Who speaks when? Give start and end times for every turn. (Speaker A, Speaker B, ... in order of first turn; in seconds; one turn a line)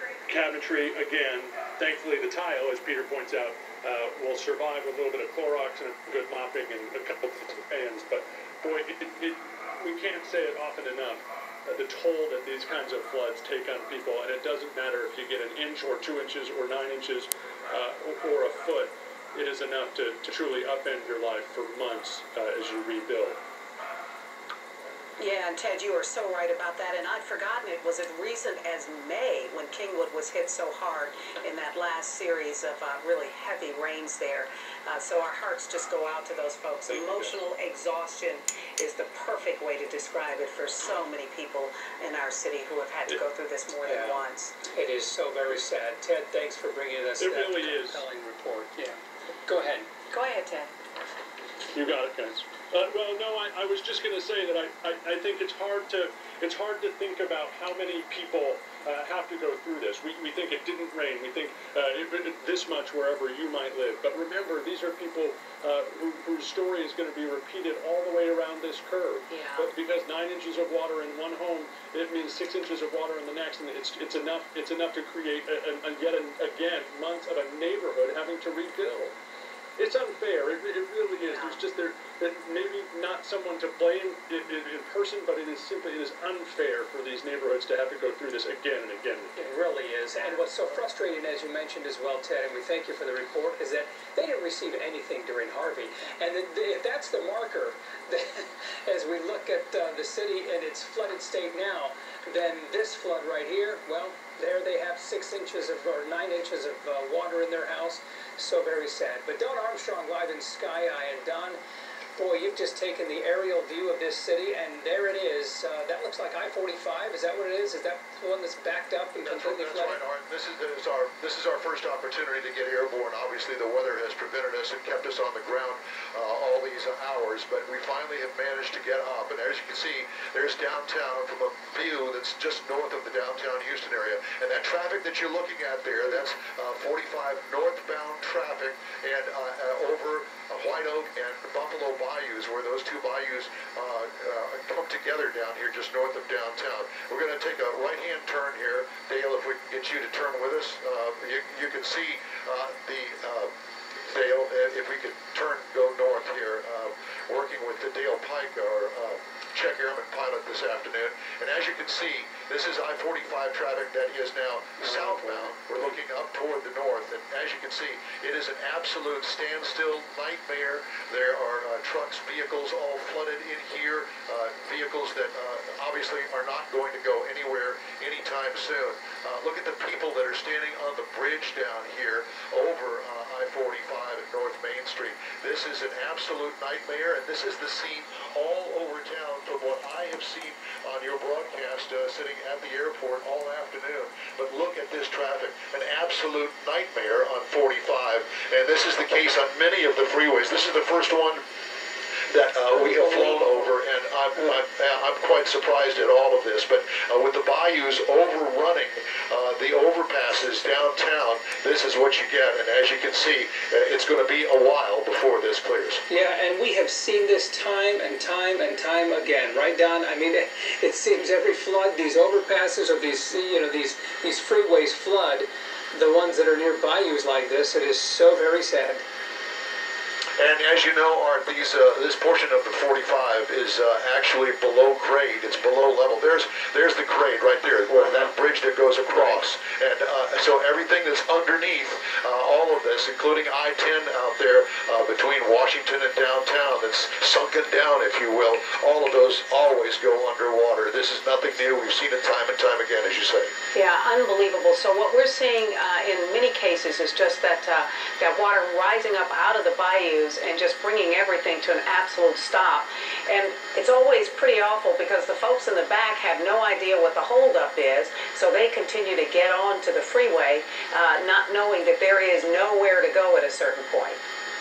Speaker A: 0.2-23.4
Speaker B: 25.2-44.6
Speaker A: 36.9-37.4
Speaker C: 43.8-49.9
Speaker A: 47.2-48.0
Speaker B: 50.1-50.7
Speaker A: 51.7-79.1
Speaker B: 69.3-69.7
Speaker A: 79.8-89.4
Speaker B: 81.2-81.6
Speaker C: 89.3-111.6
Speaker B: 90.2-90.5
Speaker C: 112.1-120.0
Speaker D: 119.2-153.5
Speaker D: 154.1-201.4
Speaker D: 202.3-216.0
Speaker C: 216.1-229.0
Speaker D: 230.4-253.5
Speaker B: 253.7-274.2